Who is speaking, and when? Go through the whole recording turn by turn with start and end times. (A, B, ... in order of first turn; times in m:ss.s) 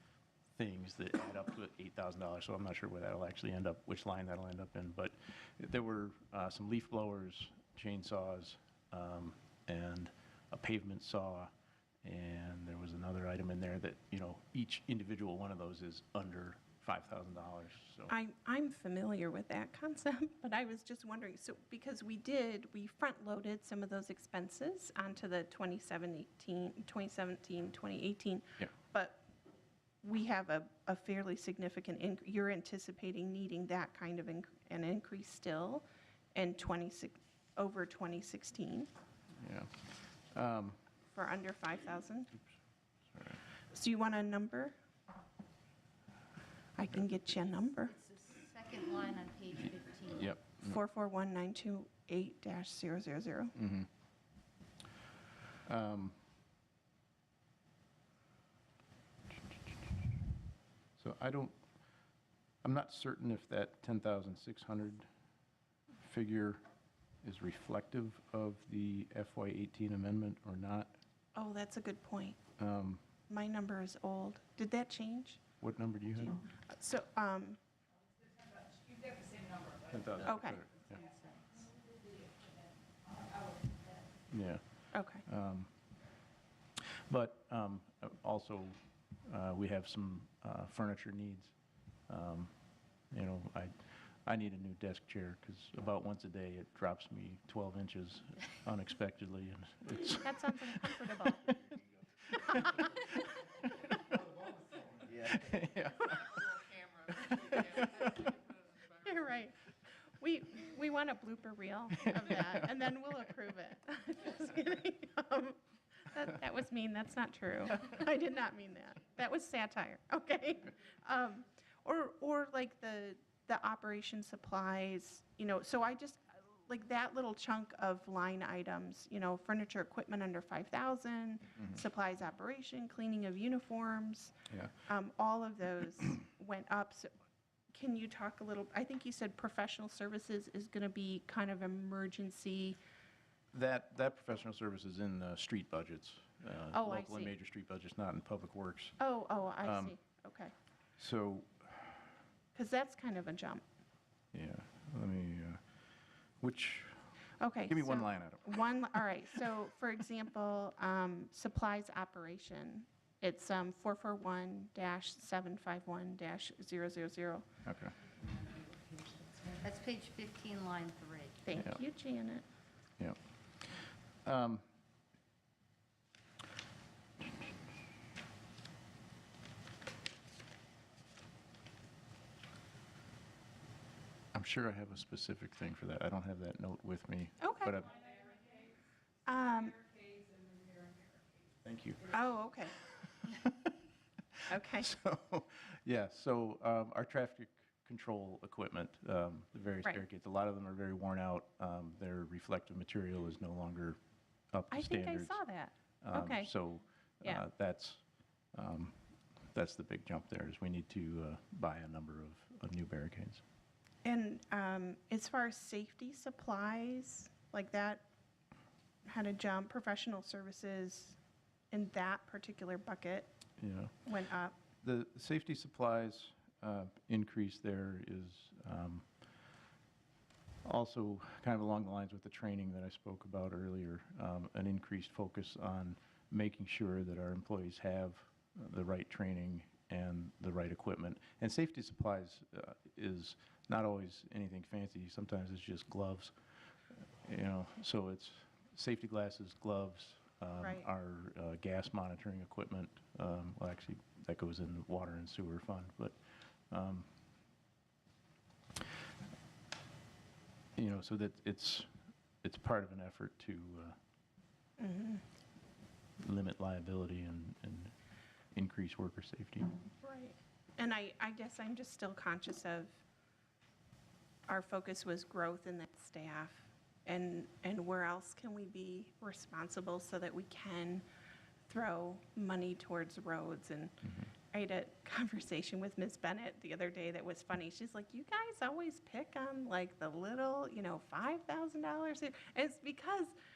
0:00.5-0:11.5 A
0:12.0-0:18.1 A
0:18.1-0:29.2 B
0:30.0-0:35.8 B
0:36.3-0:38.9 B
0:39.4-0:40.8 A
0:41.1-0:42.3 B
0:43.1-0:43.4 A
0:43.7-0:44.7 B
0:46.8-0:47.9 B
0:46.9-0:47.4 A
0:47.8-0:50.4 C
0:50.1-0:50.8 A
0:50.6-0:53.5 B
0:53.5-0:53.9 A
0:55.6-0:56.2 A
1:01.0-1:01.6 A
1:02.6-1:05.1 A
1:06.0-1:06.6 A
1:07.2-1:10.9 A
1:11.3-1:12.4 B
1:12.6-1:13.0 A
1:13.3-1:15.4 B
1:15.6-1:16.4 A
1:16.6-1:17.6 B
1:18.4-1:19.8 D
1:19.8-1:21.0 A
1:20.2-1:20.6 B
1:21.0-1:21.5 C
1:21.6-1:24.0 D
1:24.3-1:25.7 A
1:24.9-1:25.2 B
1:26.8-1:31.5 A
1:32.1-1:32.5 A
1:33.1-1:41.7 A
1:40.2-1:41.4 B
1:42.3-1:43.4 A
1:45.0-1:48.2 A
1:49.0-1:49.6 B
1:50.2-1:55.6 B
1:52.1-1:52.4 A
1:56.1-2:17.1 B
2:17.7-2:22.8 B
2:23.5-2:29.0 A
2:26.7-2:27.3 B
2:29.0-2:30.5 B
2:29.6-2:30.0 A
2:31.0-2:32.0 A
2:32.5-2:33.6 B
2:34.3-2:35.6 A
2:36.4-2:37.1 A
2:37.4-2:47.5 B
2:37.7-2:39.5 A
2:47.6-2:47.9 A
2:48.8-2:51.4 C
2:51.4-2:52.4 B
2:54.2-2:54.6 A
3:04.3-3:08.0 A
3:07.4-3:07.8 B
3:07.9-3:08.7 D
3:09.2-3:09.8 B
3:09.8-3:11.2 D
3:11.6-3:12.2 A
3:12.1-3:12.7 B
3:13.0-3:13.7 A
3:14.4-3:24.0 A
3:14.5-3:14.9 B
3:24.5-3:25.4 A
3:24.7-3:26.5 B
3:26.0-3:28.0 A
3:28.5-3:29.0 A
3:29.5-3:33.4 A
3:34.0-3:38.0 B
3:39.0-3:41.2 B
3:41.7-3:43.3 B
3:43.6-3:43.9 A
3:44.0-3:44.5 B
3:44.8-3:49.1 A
3:50.6-4:06.3 A
4:07.2-4:16.2 A
4:10.6-4:10.8 B
4:16.7-4:17.1 A
4:20.8-4:21.9 A
4:22.4-4:24.0 A
4:24.8-4:25.2 B
4:26.2-4:27.9 A
4:28.5-4:29.7 A
4:30.0-4:33.0 B
4:34.5-4:41.0 B
4:41.7-4:53.3 B
4:44.0-4:44.3 A